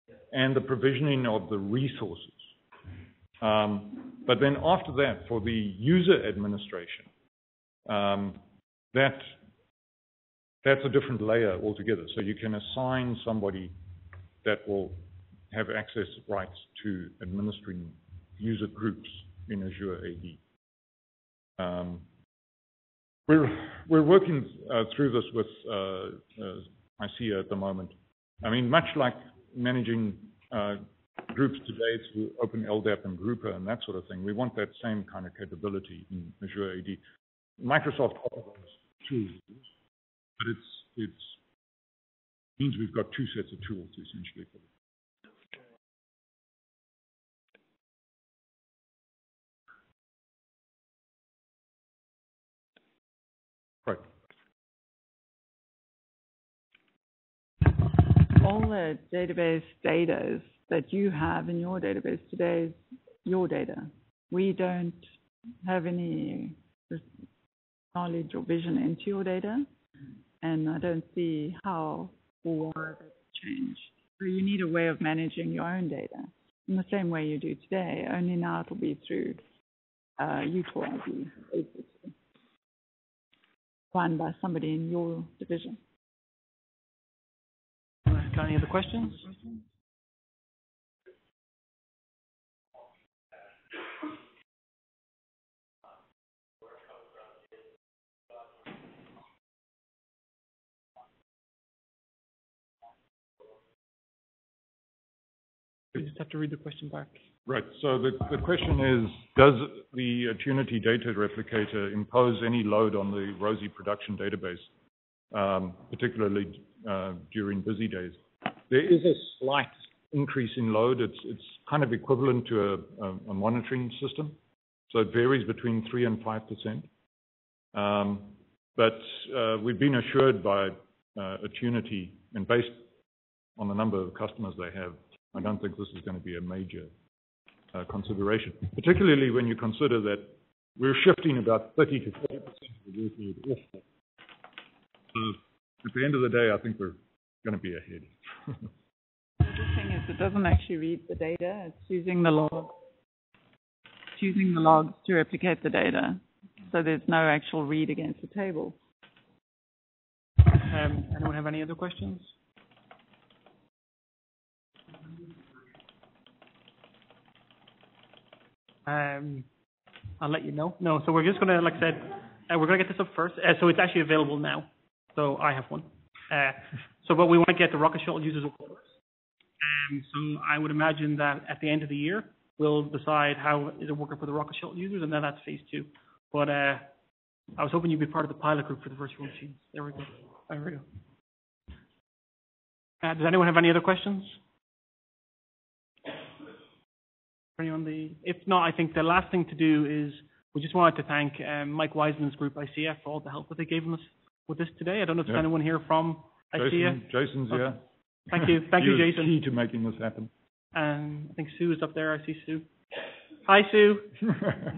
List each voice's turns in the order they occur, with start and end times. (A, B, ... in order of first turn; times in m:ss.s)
0:00.3-0:02.5 A
0:03.4-0:07.1 A
0:07.8-0:08.4 A
0:08.9-0:09.4 A
0:10.6-0:13.7 A
0:14.4-0:20.4 A
0:21.6-0:22.0 A
0:23.3-0:37.0 A
0:37.6-0:39.6 A
0:40.4-0:41.4 A
0:42.6-0:44.7 A
0:58.4-1:05.1 B
1:05.6-1:07.0 B
1:07.9-1:09.7 B
1:10.4-1:19.4 B
1:20.2-1:22.1 B
1:23.9-1:25.8 B
1:28.1-1:29.3 C
1:45.9-1:47.2 C
1:47.4-1:54.7 A
1:55.3-2:04.4 A
2:04.9-2:06.9 A
2:07.7-2:12.8 A
2:13.6-2:16.9 A
2:17.7-2:23.8 A
2:25.1-2:28.7 A
2:29.4-2:32.8 B
2:34.2-2:38.8 B
2:40.6-2:42.3 C
2:48.8-2:49.5 C
2:50.2-2:58.9 C
2:59.6-3:06.9 C
3:07.6-3:10.8 C
3:13.0-3:14.4 C
3:17.6-3:27.7 C
3:26.5-3:27.8 A
3:28.3-3:29.3 C
3:28.3-3:30.3 A
3:30.7-3:32.7 C
3:33.4-3:34.1 C